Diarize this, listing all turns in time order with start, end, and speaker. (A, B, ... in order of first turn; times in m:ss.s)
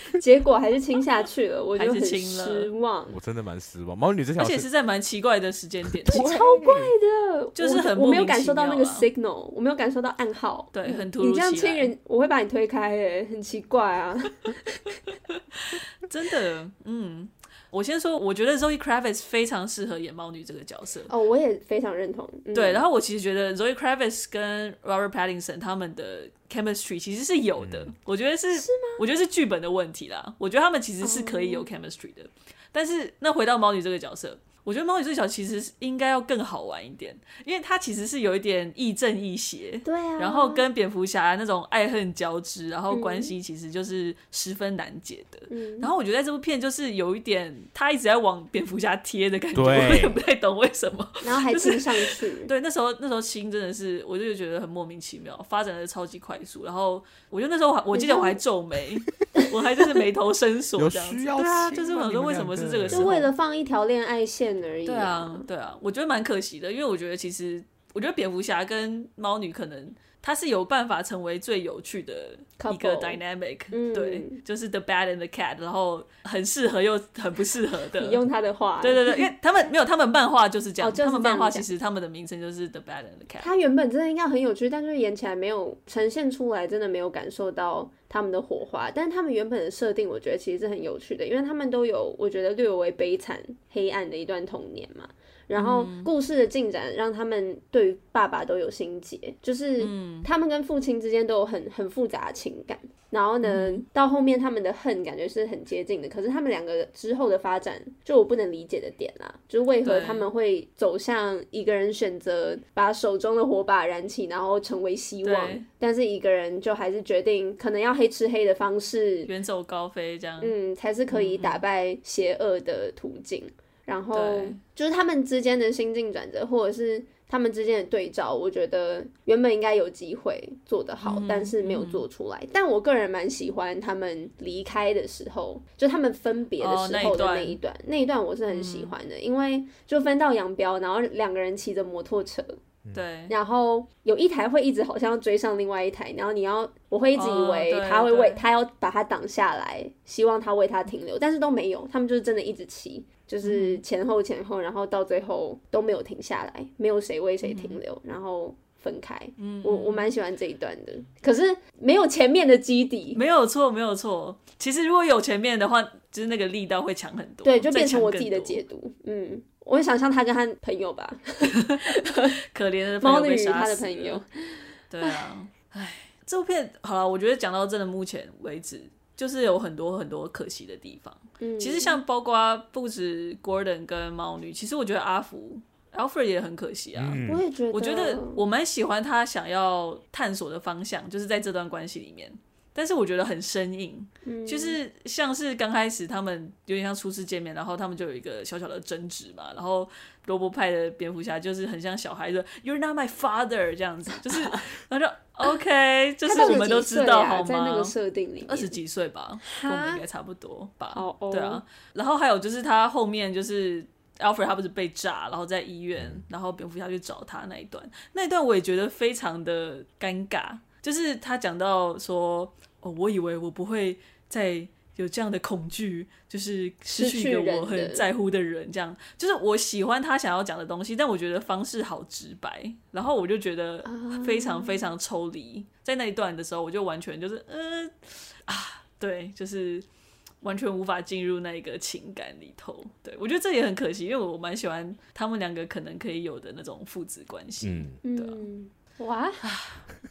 0:00.1-0:03.2 A
0:01.8-0:02.7 B
0:03.1-0:04.7 C
0:04.4-0:06.3 B
0:05.9-0:06.9 C
0:06.1-0:15.0 A
0:07.6-0:09.1 B
0:10.7-0:11.9 B
0:15.3-0:21.1 B
0:21.1-0:22.9 A
0:22.5-1:03.3 B
0:27.6-0:27.9 C
0:28.5-0:29.0 A
0:31.0-0:31.7 A
0:39.8-0:40.6 A
0:42.9-0:43.3 A
0:45.5-0:45.9 A
0:49.6-0:50.2 C
0:51.2-0:52.5 A
0:57.9-0:58.4 A
1:00.8-1:03.1 C
1:02.9-1:05.5 A
1:04.9-1:18.2 B
1:12.6-1:13.2 A
1:13.7-1:14.4 A
1:18.0-1:19.3 A
1:18.8-1:23.5 B
1:20.8-1:21.6 A
1:23.4-1:59.3 A
1:35.6-1:36.1 B
1:39.8-1:40.3 B
1:43.4-1:43.8 B
1:49.8-1:50.3 B
1:55.2-1:55.6 B
1:59.3-2:00.5 B
2:00.4-2:22.6 A
2:01.1-2:01.6 B
2:04.1-2:04.6 B
2:11.0-2:12.0 B
2:16.6-2:17.6 B
2:18.5-2:18.9 B
2:22.9-2:23.4 B
2:23.3-2:43.2 A
2:27.1-2:28.4 B
2:33.4-2:33.8 B
2:37.4-2:37.8 B
2:39.4-2:40.1 B
2:43.1-2:48.6 B
2:47.4-2:52.4 A
2:51.6-2:52.0 B
2:52.5-2:54.2 B
2:53.0-2:55.2 A
2:54.9-3:27.9 B
3:01.4-3:02.0 A
3:07.0-3:07.4 C
3:07.2-3:08.4 A
3:14.2-3:14.8 A
3:26.2-3:28.8 A
3:28.5-3:59.9 B
3:29.4-3:30.0 A
3:30.9-3:31.6 A
3:36.0-3:36.2 C
3:46.9-3:48.1 A
3:53.9-3:54.9 A
4:00.4-4:08.4 B
4:07.6-4:08.0 C
4:08.0-4:09.4 A
4:09.4-4:09.8 B